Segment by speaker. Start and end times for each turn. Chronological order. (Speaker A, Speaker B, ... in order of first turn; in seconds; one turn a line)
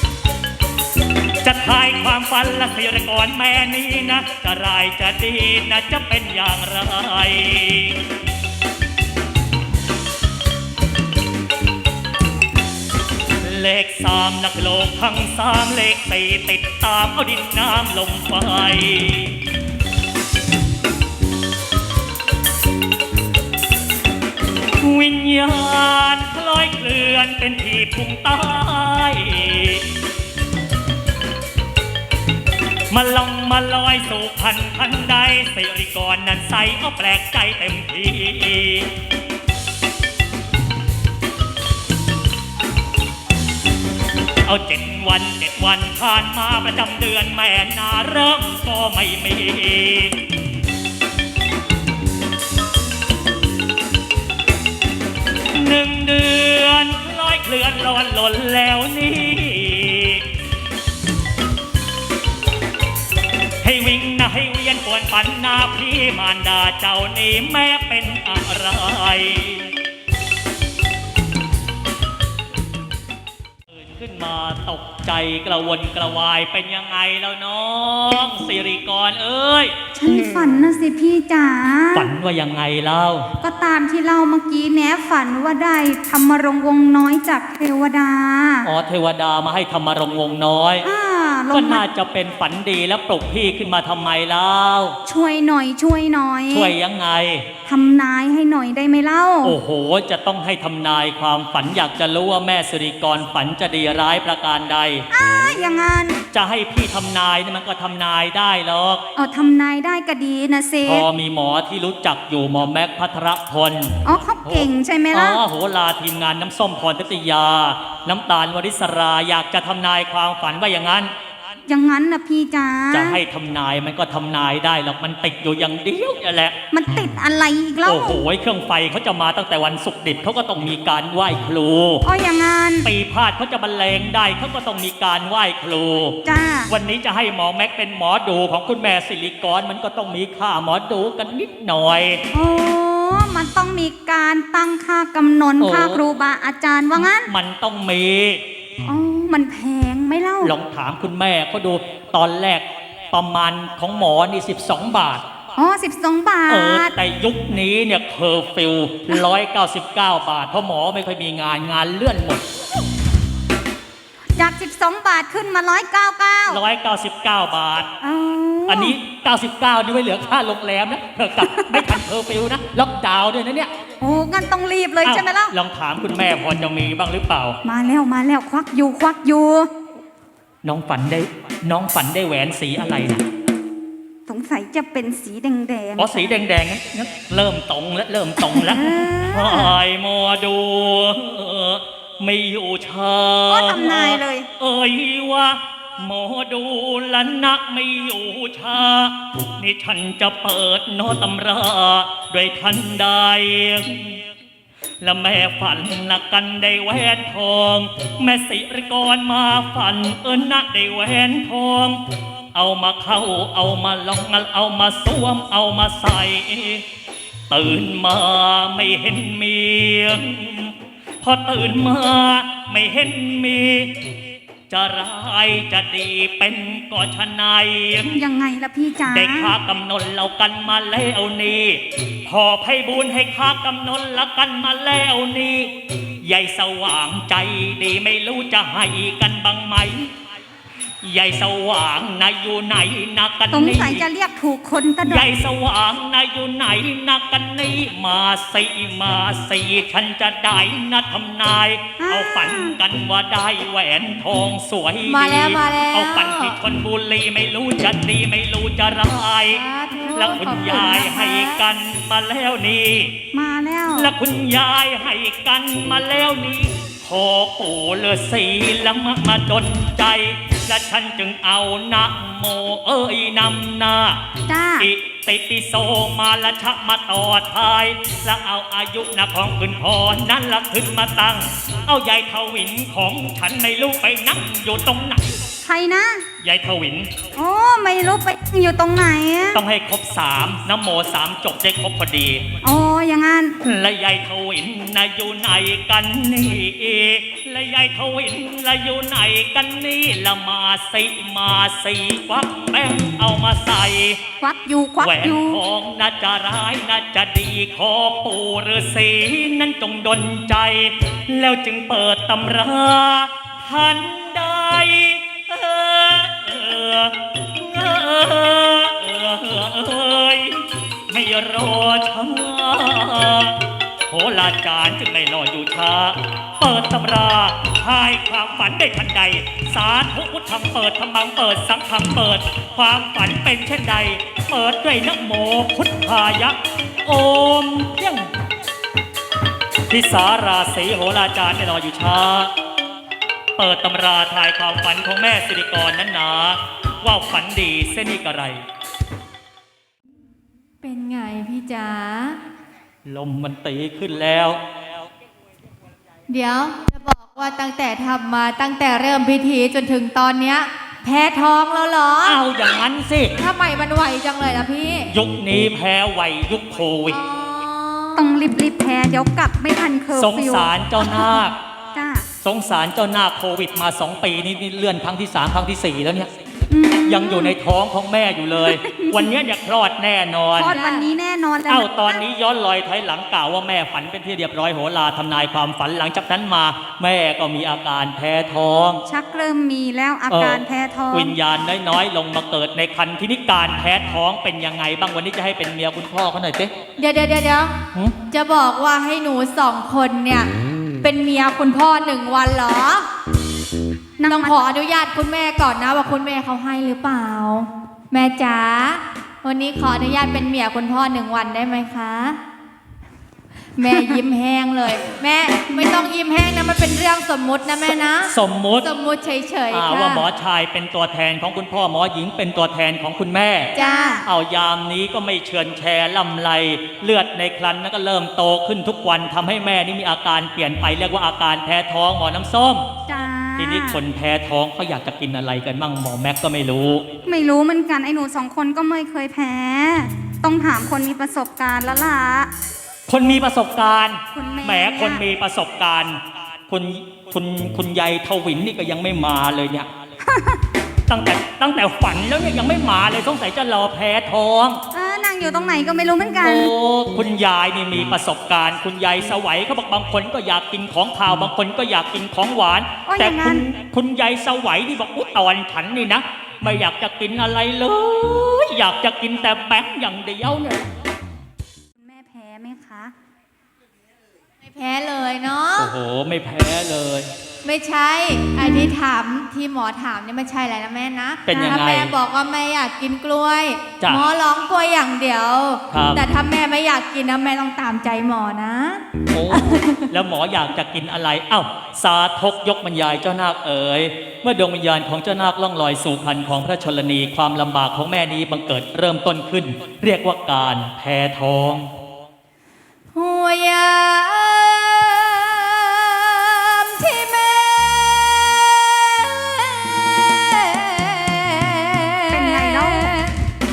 Speaker A: 1.4-8.0
Speaker A: 13.4-19.4
Speaker A: 24.8-29.9
Speaker A: 32.9-38.9
Speaker A: 44.5-50.1
Speaker A: 55.5-60.2
Speaker A: 63.6-69.7
Speaker A: 73.7-79.7
Speaker B: 79.9-82.1
Speaker A: 81.9-83.3
Speaker B: 83.4-88.7
Speaker A: 88.6-90.9
Speaker B: 90.8-91.8
Speaker A: 91.5-95.0
Speaker B: 95.0-96.7
Speaker A: 96.5-97.5
Speaker B: 97.7-99.6
Speaker A: 99.4-105.0
Speaker B: 105.1-106.2
Speaker A: 106.3-109.0
Speaker B: 109.2-111.1
Speaker A: 110.8-121.1
Speaker B: 114.0-115.4
Speaker B: 121.7-123.2
Speaker A: 122.9-126.5
Speaker B: 126.7-128.2
Speaker A: 127.8-132.0
Speaker B: 132.0-132.9
Speaker A: 132.8-136.2
Speaker B: 136.2-136.7
Speaker A: 136.7-142.2
Speaker B: 142.3-147.3
Speaker A: 145.6-146.0
Speaker A: 147.2-148.4
Speaker B: 148.8-150.5
Speaker A: 150.4-155.2
Speaker B: 155.6-157.0
Speaker A: 156.5-162.4
Speaker B: 164.3-166.6
Speaker A: 166.5-167.9
Speaker B: 168.0-169.0
Speaker A: 168.7-173.7
Speaker B: 171.4-172.0
Speaker B: 174.0-175.5
Speaker A: 175.0-177.6
Speaker B: 177.6-179.7
Speaker A: 180.6-183.2
Speaker B: 184.3-186.4
Speaker A: 186.0-204.2
Speaker B: 188.5-189.8
Speaker B: 193.5-194.5
Speaker A: 205.0-212.0
Speaker A: 212.5-216.8
Speaker A: 217.5-224.1
Speaker A: 224.7-228.2
Speaker B: 228.1-229.6
Speaker A: 229.1-235.7
Speaker A: 236.2-240.1
Speaker A: 241.0-244.0
Speaker B: 243.5-245.3
Speaker A: 245.0-259.6
Speaker B: 252.0-252.8
Speaker C: 255.1-256.6
Speaker C: 259.5-261.6
Speaker A: 260.1-263.1
Speaker B: 263.3-264.1
Speaker A: 263.9-274.2
Speaker B: 274.5-274.9
Speaker A: 274.8-285.4
Speaker B: 285.6-286.2
Speaker A: 286.4-287.1
Speaker B: 287.3-289.6
Speaker A: 289.5-292.5
Speaker B: 292.6-293.6
Speaker A: 293.6-304.2
Speaker B: 304.4-305.6
Speaker A: 305.0-338.3
Speaker A: 339.9-342.5
Speaker A: 343.6-348.6
Speaker C: 350.8-352.4
Speaker A: 353.0-354.6
Speaker C: 356.3-362.4
Speaker A: 362.2-363.4
Speaker C: 363.4-365.1
Speaker A: 365.1-367.2
Speaker C: 367.1-368.3
Speaker B: 368.1-372.3
Speaker A: 370.1-371.6
Speaker A: 372.4-376.3
Speaker B: 376.7-377.6
Speaker A: 377.0-380.7
Speaker B: 378.6-379.3
Speaker B: 380.5-382.2
Speaker C: 380.7-381.1
Speaker A: 381.7-389.0
Speaker B: 389.0-391.4
Speaker A: 390.3-390.6
Speaker A: 391.1-396.7
Speaker C: 397.0-400.5
Speaker C: 401.0-403.1
Speaker B: 404.2-404.6
Speaker C: 404.3-412.4
Speaker C: 413.8-420.3
Speaker B: 413.9-414.2
Speaker B: 415.7-416.1
Speaker A: 418.2-418.9
Speaker A: 419.7-423.7
Speaker C: 423.7-424.2
Speaker B: 423.8-424.3
Speaker A: 424.2-432.9
Speaker B: 433.1-434.0
Speaker A: 433.6-437.0
Speaker B: 437.2-442.5
Speaker A: 443.1-449.9
Speaker B: 444.3-445.2
Speaker B: 450.2-450.6
Speaker A: 451.1-454.8
Speaker B: 454.9-456.7
Speaker A: 456.4-470.9
Speaker B: 463.1-463.6
Speaker B: 472.0-473.1
Speaker C: 474.6-475.9
Speaker A: 475.8-477.3
Speaker C: 477.6-490.1
Speaker A: 481.5-482.1
Speaker A: 485.9-486.2
Speaker A: 489.3-501.9
Speaker C: 503.1-513.4
Speaker B: 512.3-513.2